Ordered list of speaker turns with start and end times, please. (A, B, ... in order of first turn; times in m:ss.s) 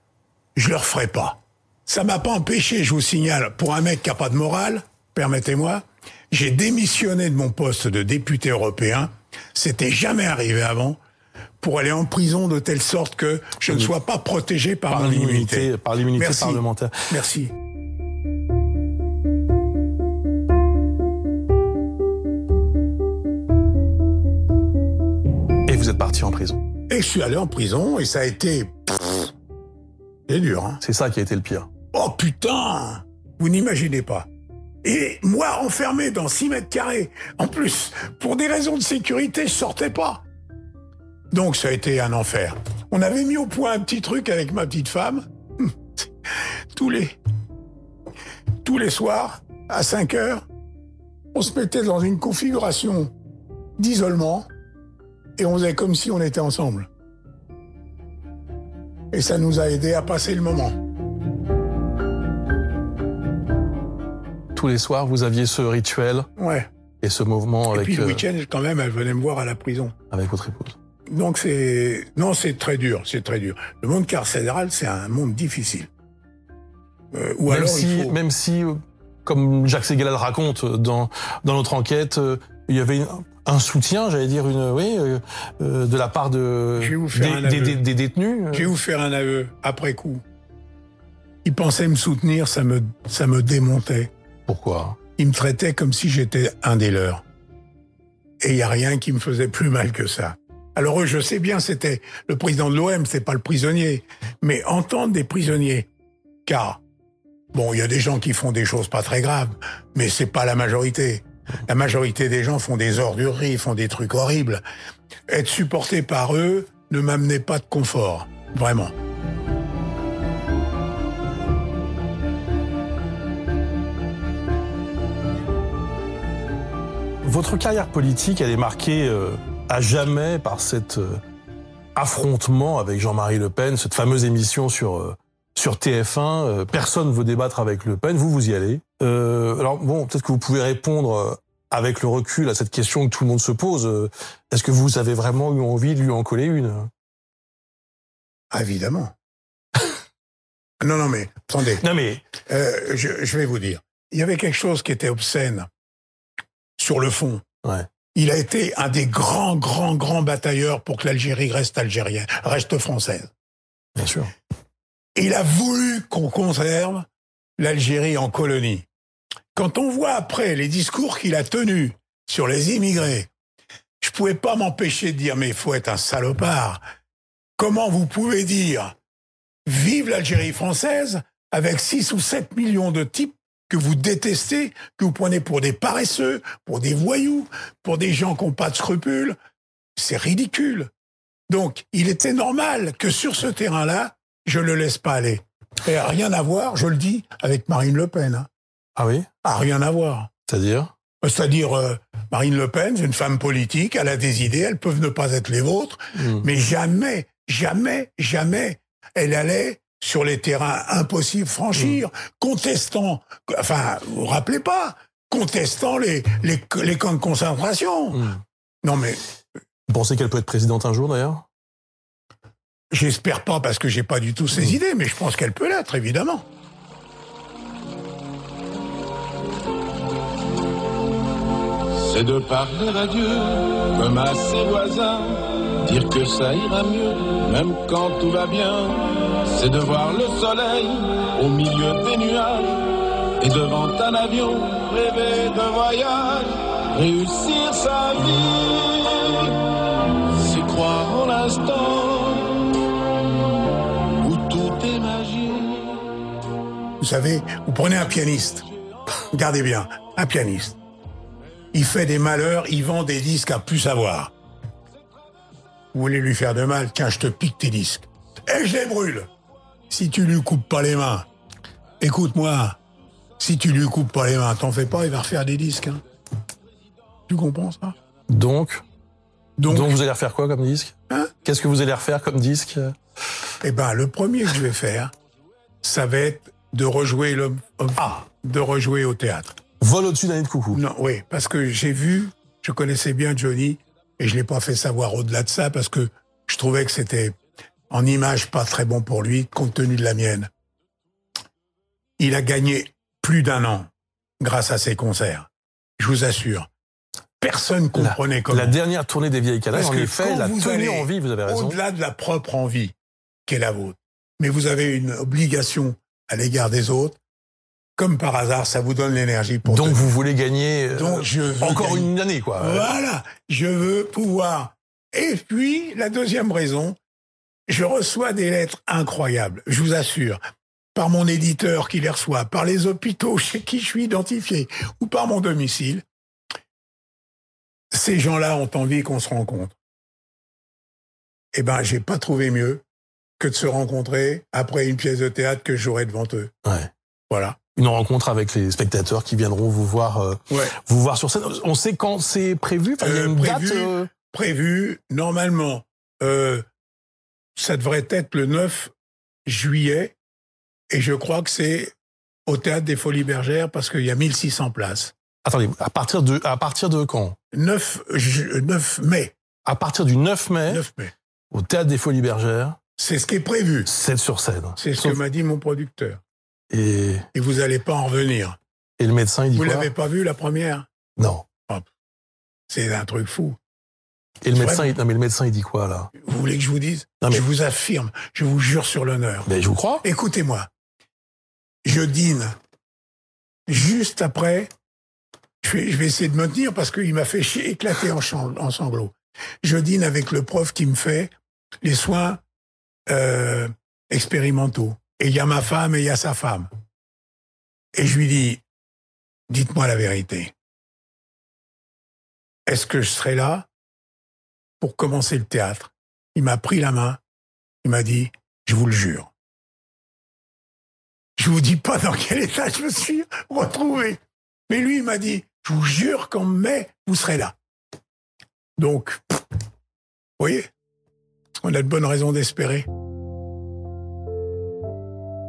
0:00.6-0:11.0 A
0:11.6-0:17.5 A
0:14.9-0:17.0 B
0:25.7-0:26.6 B
0:26.9-0:29.3 A
0:30.3-0:30.8 A
0:30.8-0:31.7 B
0:31.9-0:34.3 A
0:34.8-0:40.2 A
0:41.3-0:46.1 A
0:46.7-0:47.2 A
0:48.6-0:50.4 A
0:51.3-0:53.1 A
0:53.8-0:54.5 A
0:55.4-0:56.9 A
0:59.1-1:00.8 A
1:04.5-1:06.3 B
1:06.4-1:06.7 A
1:07.0-1:08.2 B
1:07.7-1:09.9 A
1:10.1-1:10.8 B
1:11.1-1:15.9 A
1:17.1-1:18.2 A
1:17.5-1:28.7 B
1:26.8-1:27.8 A
1:28.5-1:30.2 A
1:31.4-1:34.1 A
1:34.5-1:35.0 B
1:35.2-1:37.2 A
1:38.4-1:45.9 A
1:46.4-1:46.8 A
1:47.5-1:54.6 A
1:55.3-1:58.9 A
2:07.2-2:11.2 B
2:12.0-2:26.9 B
2:28.5-2:29.1 A
2:30.8-2:31.8 A
2:31.8-2:32.2 B
2:32.5-2:35.7 A
2:36.8-2:37.4 A
2:38.1-2:43.3 A
2:44.0-2:44.3 B
2:45.1-2:47.0 A
2:47.6-2:48.8 A
2:49.5-2:53.3 A
2:54.0-2:56.8 A
2:57.6-2:58.9 A
2:59.6-3:09.4 A
3:10.0-3:10.9 A
3:11.5-3:18.5 A
3:19.0-3:19.3 B
3:19.4-3:20.3 A
3:20.5-3:20.9 B
3:21.2-3:38.3 A
3:26.1-3:26.5 B
3:31.7-3:32.0 B
3:38.1-3:38.4 B
3:38.8-3:39.2 A
3:39.9-3:41.4 B
3:42.9-3:46.4 A
3:51.9-4:09.6 C
4:10.4-4:12.8 C
4:14.2-4:16.2 C
4:17.0-4:18.6 A
4:19.3-4:20.8 A
4:21.7-4:24.3 A
4:25.9-4:29.3 A
4:29.9-4:31.2 A
4:32.0-4:32.8 A
4:33.4-4:36.0 A
4:37.3-4:38.0 A
4:38.3-4:38.8 B
4:39.6-4:40.0 A
4:39.7-4:42.9 B
4:43.6-4:45.1 A
4:45.8-4:49.5 A
4:49.8-4:50.8 B
4:50.7-4:57.4 A
4:57.9-5:00.5 A
5:02.2-5:03.9 A
5:04.4-5:06.7 A
5:07.4-5:08.8 A
5:07.9-5:11.8 B
5:09.7-5:12.9 A
5:13.4-5:17.2 A
5:18.0-5:20.1 A
5:19.6-5:22.9 B
5:20.9-5:27.0 A
5:27.7-5:30.4 A
5:30.9-5:36.0 A
5:37.9-5:39.8 A
5:41.5-5:42.8 A
5:43.4-5:46.5 A
5:46.6-5:46.9 B
5:47.3-5:47.6 A
5:47.7-5:54.1 B
5:50.5-5:50.7 A
5:53.0-5:56.6 A
5:57.6-5:58.9 A
5:59.4-6:00.1 A
6:00.9-6:01.9 A
6:02.5-6:05.1 A
6:05.4-6:07.4 B
6:07.5-6:09.3 A
6:09.6-6:10.8 B
6:10.7-6:11.1 A
6:11.5-6:12.8 B
6:13.0-6:13.9 A
6:13.8-6:15.2 B
6:14.8-6:16.2 A
6:16.7-6:17.2 B
6:17.3-6:18.6 A
6:19.0-6:19.9 B
6:19.5-6:20.8 A
6:21.2-6:21.4 B
6:22.7-6:23.6 A
6:24.4-6:26.1 B
6:24.5-6:24.9 A
6:26.2-6:29.5 A
6:29.4-6:30.0 B
6:30.0-6:30.7 A
6:31.8-6:32.5 A
6:33.7-6:34.7 A
6:35.6-6:41.3 A
6:41.8-6:42.4 A
6:43.1-6:46.7 A
6:47.9-6:48.6 A
6:49.5-6:50.5 A
6:52.6-6:53.7 A
6:54.8-6:57.2 A
6:57.8-6:59.3 A
7:01.4-7:07.5 A
7:08.8-7:09.4 A
7:10.4-7:10.7 A
7:11.6-7:12.9 A